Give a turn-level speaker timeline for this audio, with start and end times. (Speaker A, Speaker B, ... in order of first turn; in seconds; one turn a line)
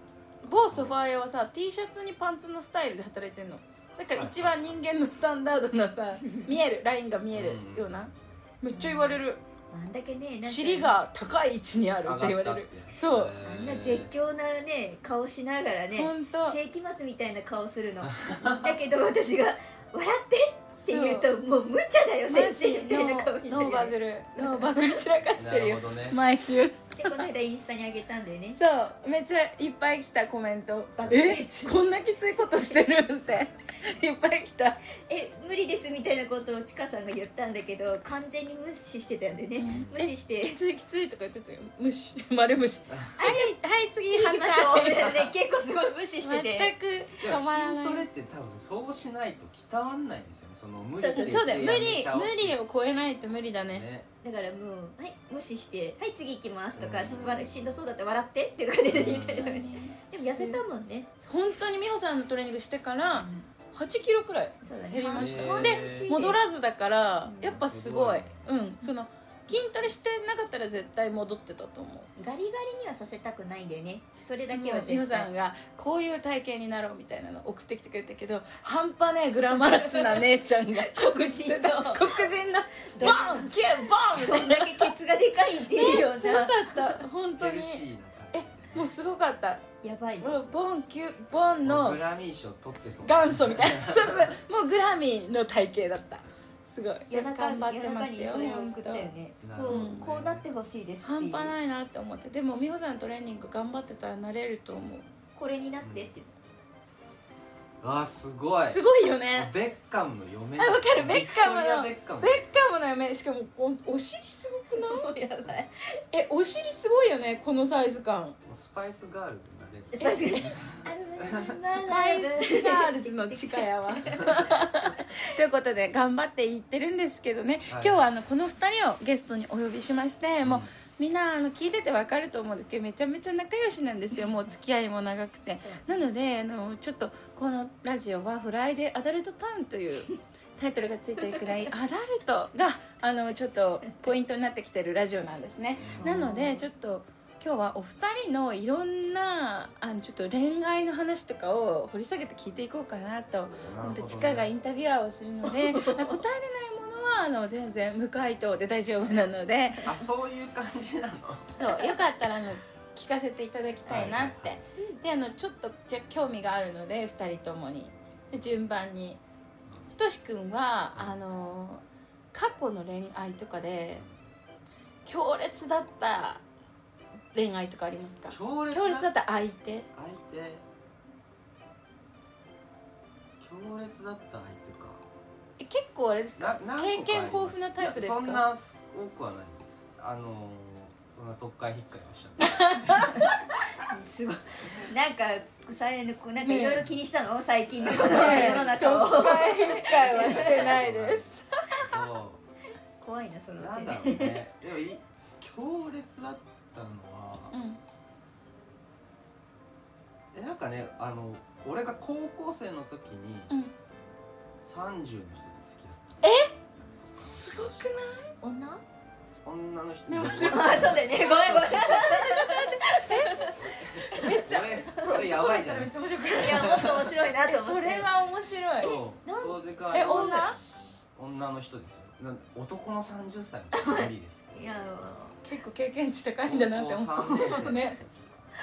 Speaker A: 0.4-9.4
Speaker B: 0.5-1.0
Speaker B: 4.1-4.8
Speaker B: 7.3-8.3
Speaker C: 8.7-11.0
Speaker A: 10.4-13.3
Speaker B: 12.0-14.1
Speaker C: 13.4-25.0
Speaker A: 16.0-16.6
Speaker B: 18.1-18.7
Speaker A: 20.9-21.3
Speaker A: 22.3-27.3
Speaker B: 25.4-26.2
Speaker C: 26.9-28.6
Speaker A: 28.6-34.8
Speaker C: 31.0-31.8
Speaker C: 35.1-40.6
Speaker A: 39.6-45.3
Speaker B: 39.6-40.0
Speaker C: 43.2-43.6
Speaker C: 44.1-46.8
Speaker A: 46.2-48.1
Speaker B: 47.2-52.6
Speaker C: 50.9-51.6
Speaker A: 51.1-53.9
Speaker B: 53.6-54.1
Speaker C: 54.2-61.1
Speaker B: 56.8-57.8
Speaker A: 57.1-57.4
Speaker B: 58.9-59.7
Speaker A: 59.0-60.6
Speaker A: 61.2-72.1
Speaker C: 63.1-63.5
Speaker C: 64.6-66.4
Speaker B: 65.2-66.1
Speaker C: 67.2-67.6
Speaker B: 67.4-68.5
Speaker C: 72.2-75.3
Speaker A: 74.5-84.9
Speaker C: 79.7-80.2
Speaker C: 80.8-82.2
Speaker C: 82.9-87.0
Speaker A: 85.6-89.7
Speaker B: 87.4-88.9
Speaker C: 89.8-90.4
Speaker A: 90.2-92.0
Speaker B: 91.6-94.4
Speaker A: 93.0-99.1
Speaker C: 97.1-101.5
Speaker B: 99.4-100.5
Speaker A: 99.7-100.0
Speaker A: 101.0-105.1
Speaker C: 105.3-106.3
Speaker B: 105.8-106.1
Speaker B: 107.8-112.6
Speaker A: 108.6-109.5
Speaker A: 110.6-115.1
Speaker C: 114.8-116.0
Speaker A: 116.1-118.4
Speaker B: 118.5-121.6
Speaker C: 119.9-124.7
Speaker A: 120.0-120.5
Speaker A: 121.7-159.9
Speaker B: 127.7-128.1
Speaker B: 130.4-130.7
Speaker C: 135.6-136.0
Speaker B: 145.8-146.3
Speaker C: 146.0-146.7
Speaker B: 153.6-154.5
Speaker C: 155.5-156.2
Speaker B: 159.8-161.6
Speaker A: 161.6-169.2
Speaker B: 163.8-164.6
Speaker B: 169.7-169.9
Speaker A: 169.9-174.1
Speaker B: 170.9-171.2
Speaker B: 173.9-174.2
Speaker A: 175.1-176.4
Speaker A: 177.3-179.9
Speaker B: 178.3-179.1
Speaker B: 179.9-180.7
Speaker B: 183.4-185.1
Speaker A: 185.6-188.4
Speaker B: 186.4-193.0
Speaker A: 192.4-193.4
Speaker C: 193.1-200.8
Speaker A: 196.4-196.9
Speaker A: 197.9-201.9
Speaker B: 199.9-202.4
Speaker C: 203.0-204.4
Speaker B: 203.6-207.6
Speaker A: 207.5-207.8
Speaker B: 210.3-213.5
Speaker B: 214.6-217.9
Speaker A: 216.2-216.5
Speaker A: 217.2-218.3
Speaker C: 218.4-218.8
Speaker B: 219.4-222.4
Speaker A: 220.1-221.1
Speaker C: 220.4-223.6
Speaker A: 222.0-223.5
Speaker B: 223.3-227.1
Speaker A: 224.1-229.0
Speaker C: 226.4-228.1
Speaker B: 228.8-235.1
Speaker C: 229.2-230.6
Speaker A: 229.9-230.6
Speaker C: 233.7-235.4
Speaker A: 235.4-238.0
Speaker B: 236.4-238.5